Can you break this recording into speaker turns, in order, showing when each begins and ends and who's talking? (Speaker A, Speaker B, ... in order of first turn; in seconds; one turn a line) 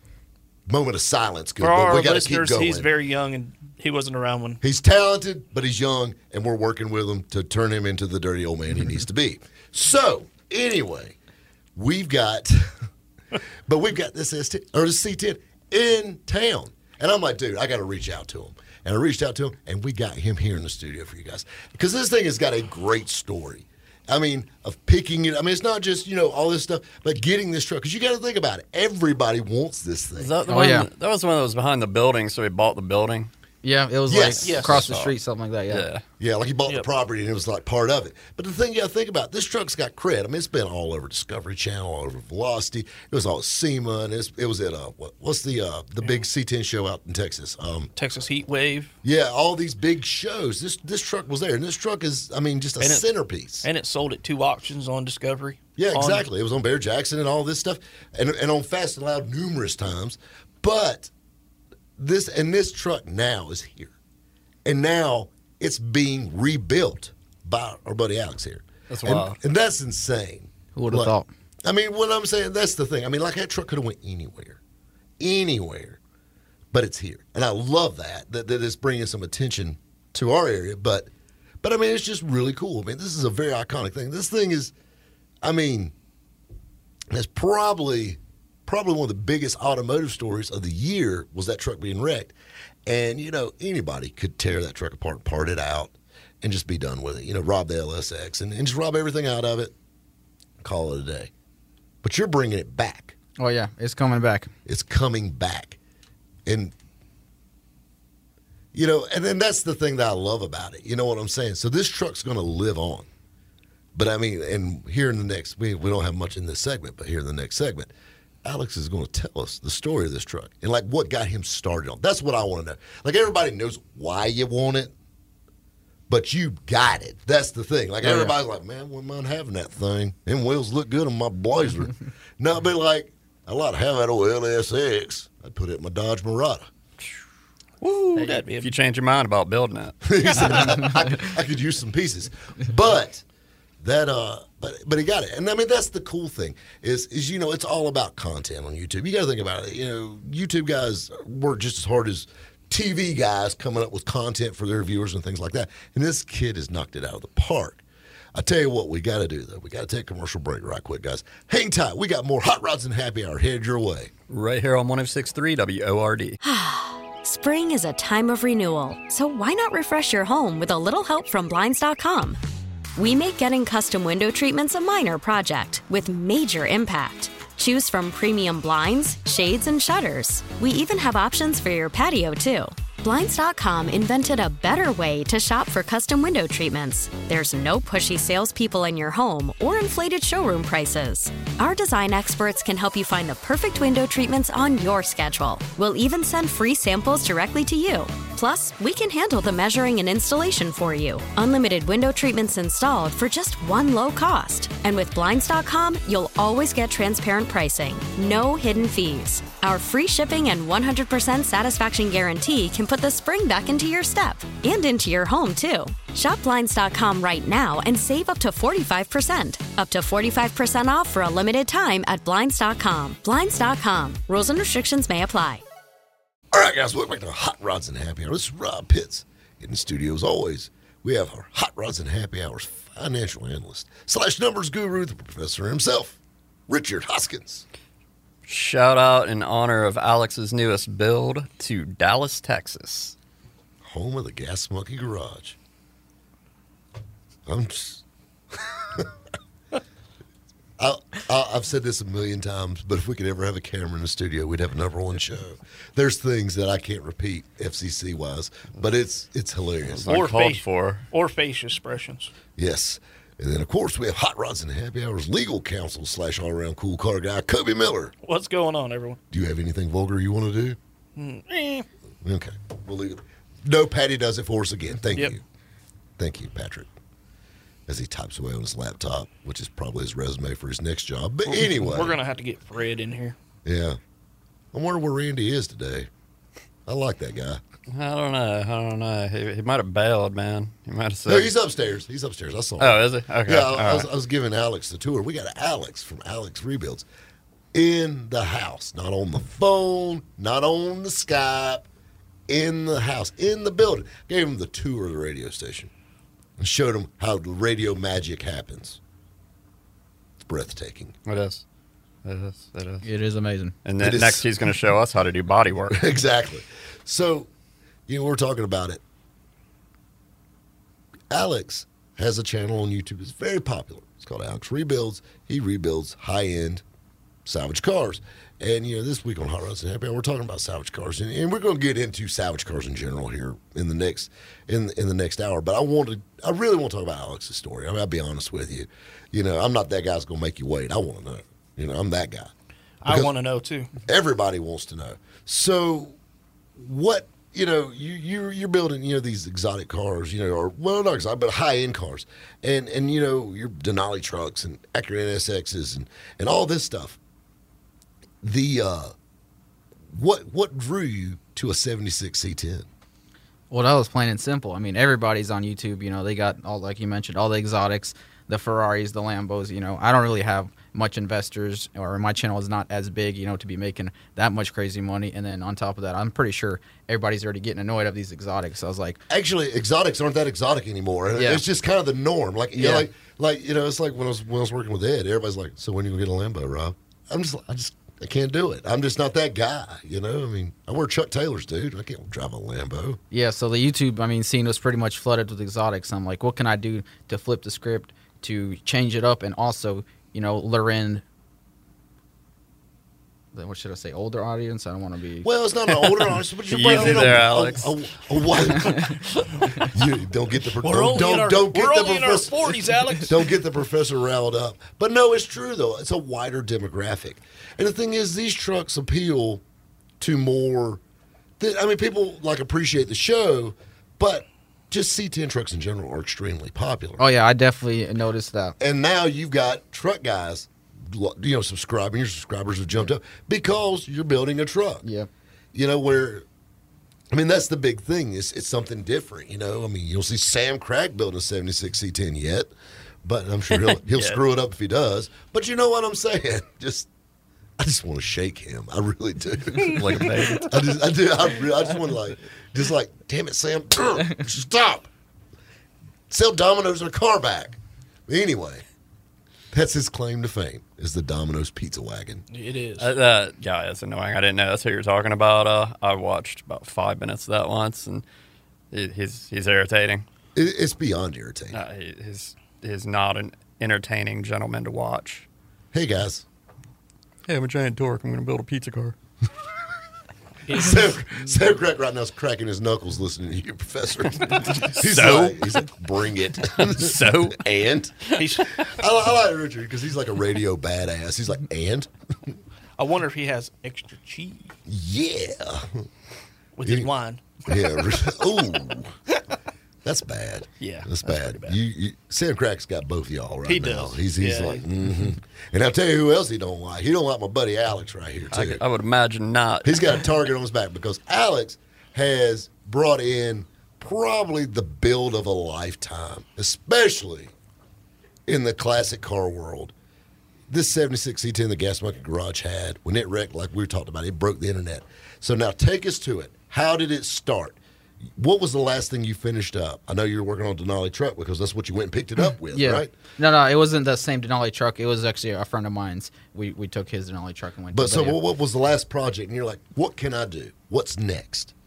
Speaker A: 0.7-2.9
Speaker B: 1.6-4.6
Speaker A: 4.6-11.2
Speaker A: 11.8-12.8
Speaker A: 13.7-30.3
Speaker C: 30.2-33.3
Speaker D: 30.5-30.9
Speaker D: 33.6-35.9
Speaker A: 34.1-35.1
Speaker B: 34.4-34.8
Speaker C: 35.7-36.0
Speaker A: 36.2-47.9
Speaker B: 48.0-48.9
Speaker A: 49.0-53.7
Speaker B: 52.8-53.0
Speaker B: 53.6-56.2
Speaker A: 55.8-61.1
Speaker A: 62.0-63.9
Speaker A: 64.6-74.6
Speaker C: 68.9-69.4
Speaker D: 70.7-71.3
Speaker A: 75.2-76.0
Speaker A: 76.7-81.1
Speaker A: 81.6-84.7
Speaker A: 85.4-85.9
Speaker A: 87.1-92.3
Speaker A: 92.8-99.7
Speaker A: 100.6-101.3
Speaker A: 102.0-103.1
Speaker D: 103.4-104.5
Speaker A: 104.7-105.8
Speaker A: 106.5-106.7
Speaker A: 108.7-113.1
Speaker A: 113.9-117.9
Speaker A: 118.4-124.9
Speaker A: 126.1-136.7
Speaker D: 128.0-128.3
Speaker B: 137.8-138.7
Speaker C: 138.2-140.7
Speaker A: 140.0-143.2
Speaker A: 143.8-157.8
Speaker A: 158.3-164.1
Speaker C: 164.3-166.4
Speaker E: 166.4-172.4
Speaker E: 172.9-225.6
Speaker A: 226.5-237.6
Speaker C: 238.4-243.1
Speaker A: 243.8-245.6
Speaker A: 247.4-249.1
Speaker A: 250.8-260.2
Speaker C: 259.9-261.1
Speaker B: 260.1-262.3
Speaker A: 262.6-268.1
Speaker B: 268.2-269.2
Speaker A: 269.3-270.8
Speaker B: 271.1-271.9
Speaker A: 272.2-275.4
Speaker A: 276.2-276.9
Speaker A: 277.9-282.2
Speaker B: 281.4-283.4
Speaker A: 283.6-284.0
Speaker A: 284.7-286.1
Speaker A: 286.9-287.6
Speaker C: 287.9-291.5
Speaker A: 291.3-297.1
Speaker C: 292.8-294.1
Speaker A: 297.7-301.9
Speaker A: 302.5-305.9
Speaker A: 306.6-309.0
Speaker A: 310.4-311.1
Speaker C: 311.2-311.6
Speaker C: 312.2-313.0
Speaker D: 313.0-313.8
Speaker C: 313.8-316.1
Speaker A: 314.0-314.5
Speaker A: 315.9-317.5
Speaker A: 318.1-319.0
Speaker A: 321.3-326.8
Speaker A: 327.4-342.5
Speaker B: 343.0-343.9
Speaker A: 343.0-343.3
Speaker A: 344.1-346.1
Speaker A: 346.8-357.2
Speaker A: 358.4-359.1
Speaker A: 360.1-362.9
Speaker D: 363.7-379.2
Speaker A: 379.3-393.2
Speaker D: 381.4-381.6
Speaker D: 382.8-383.1
Speaker D: 393.3-401.2
Speaker D: 403.5-405.5
Speaker A: 405.4-409.2
Speaker C: 406.7-408.2
Speaker A: 409.8-419.6
Speaker B: 410.8-413.5
Speaker A: 420.2-421.0
Speaker A: 421.6-427.2
Speaker D: 427.2-428.8
Speaker A: 428.8-435.0
Speaker D: 435.0-435.3
Speaker A: 435.7-436.4
Speaker A: 437.3-442.7
Speaker A: 443.2-447.1
Speaker C: 443.7-444.4
Speaker A: 447.8-455.1
Speaker C: 450.1-450.6
Speaker A: 456.3-458.8
Speaker A: 459.7-462.4
Speaker B: 462.5-463.1
Speaker C: 463.0-468.2
Speaker C: 468.9-470.2
Speaker A: 470.5-471.8
Speaker C: 471.7-475.4
Speaker A: 475.9-476.4
Speaker C: 477.5-479.1
Speaker B: 480.7-481.2
Speaker A: 480.7-492.6
Speaker C: 484.5-485.9
Speaker C: 486.6-487.6
Speaker C: 488.2-488.9
Speaker B: 488.4-488.8
Speaker B: 493.0-494.7
Speaker A: 494.9-496.1
Speaker B: 496.8-498.7
Speaker A: 496.8-497.1
Speaker A: 497.6-499.1
Speaker A: 500.0-508.8
Speaker B: 500.8-501.8
Speaker B: 503.6-504.8
Speaker C: 508.5-510.1
Speaker A: 509.8-517.5
Speaker A: 518.5-519.9
Speaker A: 520.7-533.1
Speaker D: 532.7-538.4
Speaker A: 537.9-541.7